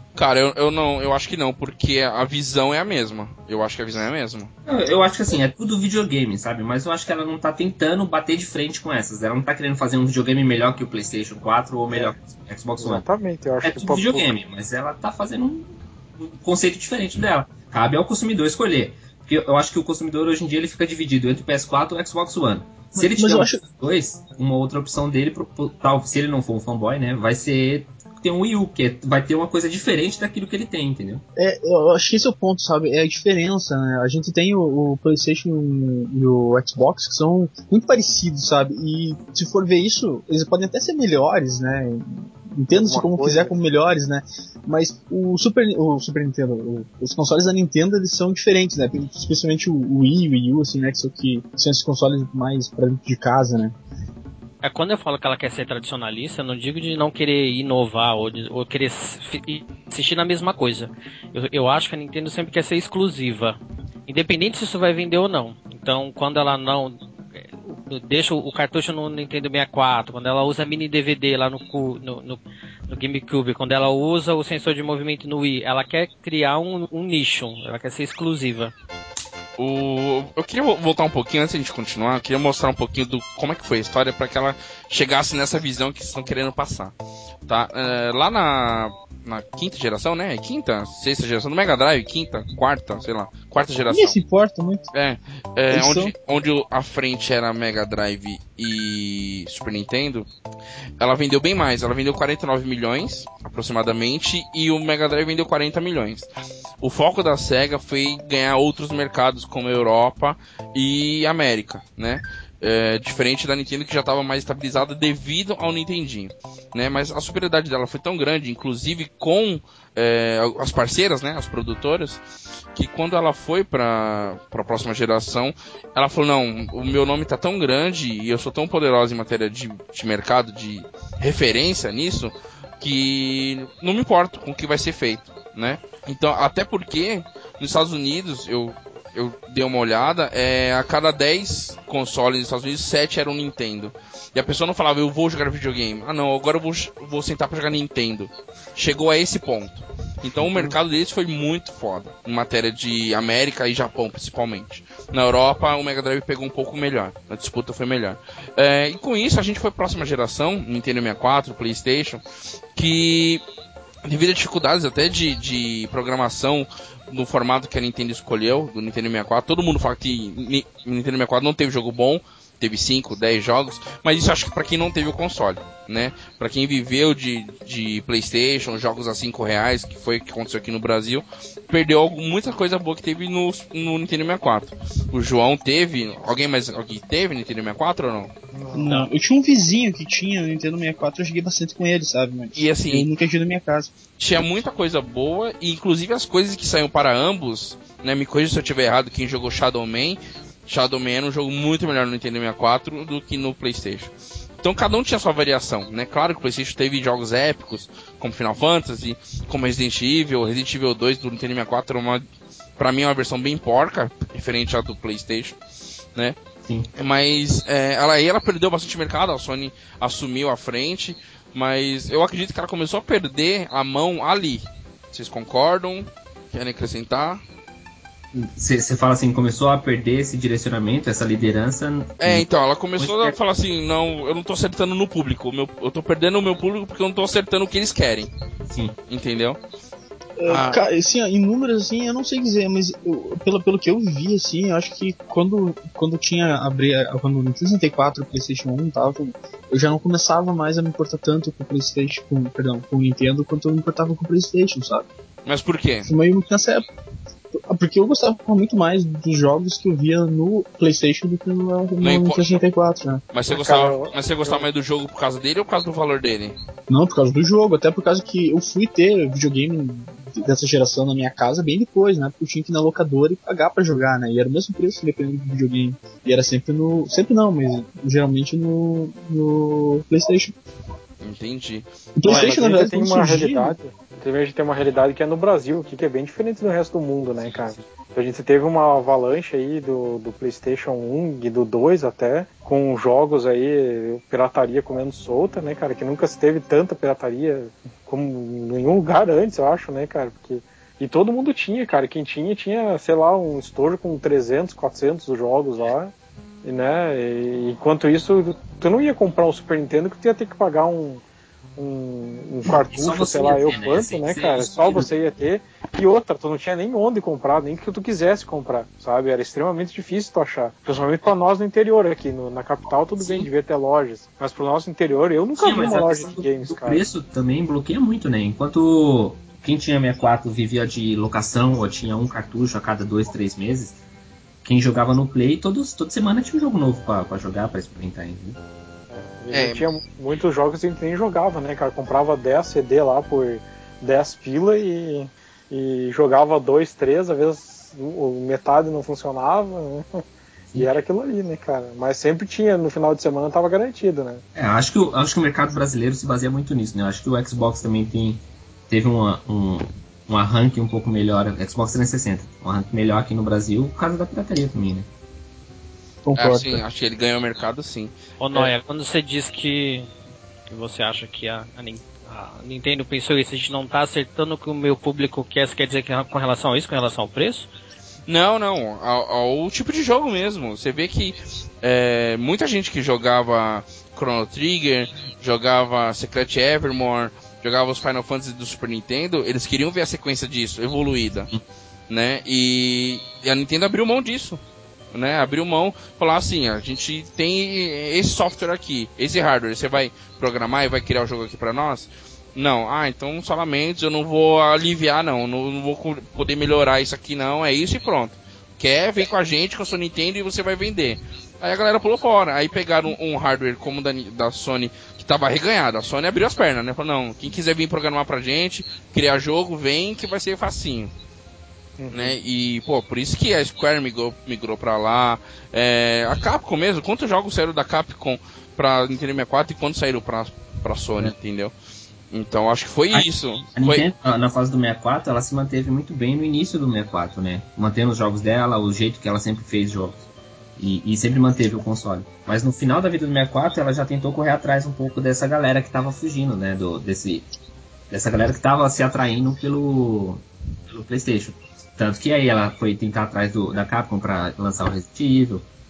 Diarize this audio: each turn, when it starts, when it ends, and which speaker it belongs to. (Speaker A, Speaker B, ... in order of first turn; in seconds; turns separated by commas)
Speaker A: 0.1-4.5, Speaker B: 4.7-13.0, Speaker C: 12.8-14.3, Speaker B: 13.6-31.2, Speaker D: 23.0-23.6, Speaker D: 31.4-53.8, Speaker C: 42.7-43.5, Speaker E: 54.6-63.5, Speaker E: 64.1-67.0, Speaker E: 67.7-78.7, Speaker A: 79.6-86.9, Speaker A: 87.5-94.2, Speaker D: 93.9-94.9, Speaker A: 94.9-100.3, Speaker D: 95.7-96.1, Speaker A: 101.0-106.3, Speaker A: 106.8-122.2, Speaker A: 122.7-162.2, Speaker A: 162.8-163.4, Speaker A: 164.0-188.3, Speaker C: 188.5-188.9, Speaker D: 188.7-193.9, Speaker A: 192.5-193.1, Speaker A: 194.2-212.2, Speaker A: 212.8-215.6, Speaker A: 216.9-227.4, Speaker B: 228.3-232.4, Speaker A: 232.2-238.3, Speaker B: 233.0-233.3, Speaker B: 238.7-238.9, Speaker A: 239.1-239.6, Speaker D: 240.4-255.1, Speaker A: 240.5-240.8, Speaker A: 255.4-256.1, Speaker D: 256.1-256.9, Speaker D: 257.5-263.2, Speaker A: 262.0-262.6, Speaker A: 263.3-266.5, Speaker C: 263.5-264.6, Speaker D: 266.9-280.5, Speaker A: 281.2-281.8, Speaker D: 282.2-283.8, Speaker C: 282.2-306.1, Speaker B: 287.4-287.8, Speaker C: 306.6-311.2, Speaker C: 311.8-327.0, Speaker B: 312.8-315.1, Speaker B: 323.2-323.5, Speaker B: 325.6-334.0, Speaker B: 334.6-338.6, Speaker C: 339.1-350.2, Speaker A: 339.5-339.8, Speaker C: 350.7-354.4, Speaker B: 354.5-365.1, Speaker D: 366.2-366.8, Speaker A: 366.4-368.1, Speaker E: 368.4-370.1, Speaker E: 370.7-377.7, Speaker A: 378.3-391.5, Speaker A: 392.1-394.6, Speaker A: 395.1-421.1, Speaker C: 422.0-422.4, Speaker A: 422.1-431.7, Speaker A: 432.3-434.1, Speaker B: 433.1-440.2, Speaker B: 440.8-447.5, Speaker B: 448.1-455.6